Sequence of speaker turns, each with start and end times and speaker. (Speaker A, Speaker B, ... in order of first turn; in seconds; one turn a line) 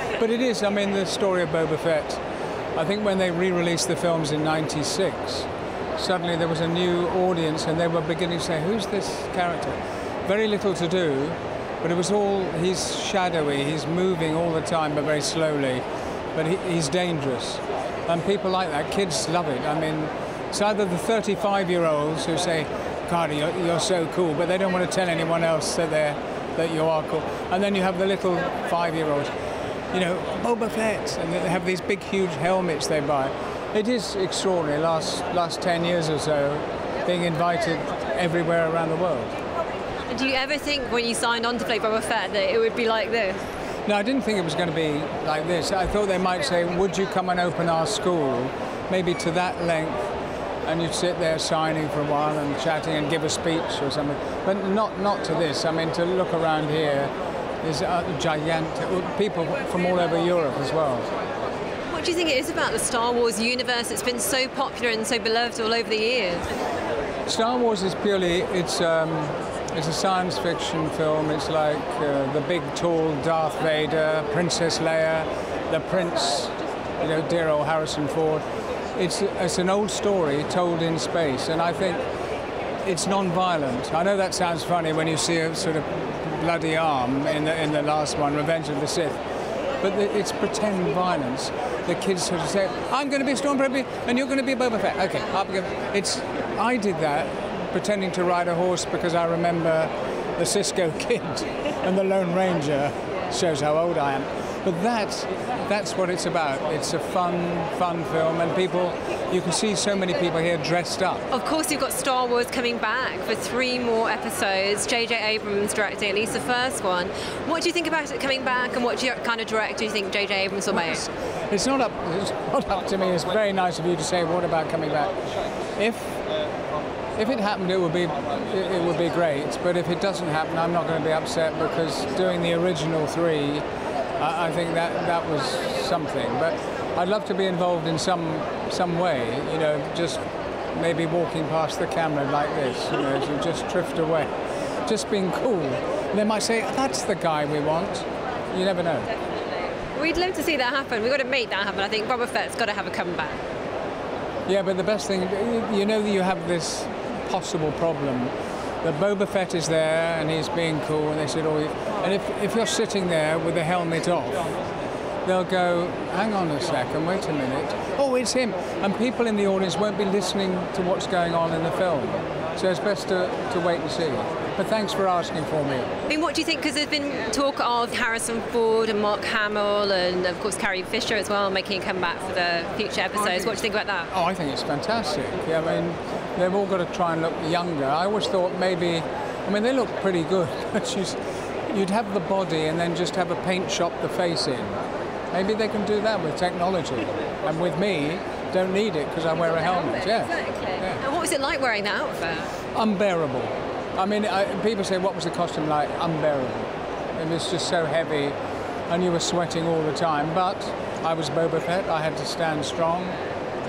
Speaker A: 0.2-2.2
Speaker A: 2.8-15.8
Speaker A: 16.4-29.3
Speaker A: 29.9-39.3
Speaker B: 40.1-43.4
Speaker A: 43.9-50.0
Speaker A: 50.6-57.1
Speaker A: 57.6-61.1
Speaker B: 61.9-66.5
Speaker A: 67.3-82.0
Speaker A: 82.8-89.2
Speaker A: 89.8-111.3
Speaker B: 111.3-121.0
Speaker A: 120.8-125.2
Speaker A: 125.8-126.2
Speaker A: 127.2-133.6
Speaker A: 134.2-140.2
Speaker A: 140.7-144.3
Speaker A: 144.8-149.1
Speaker B: 149.9-153.4
Speaker A: 154.5-164.5
Speaker A: 165.2-175.9
Speaker B: 176.1-184.1
Speaker A: 184.1-194.8
Speaker A: 195.3-201.0
Speaker B: 199.8-202.6
Speaker A: 202.7-208.4
Speaker A: 208.9-213.2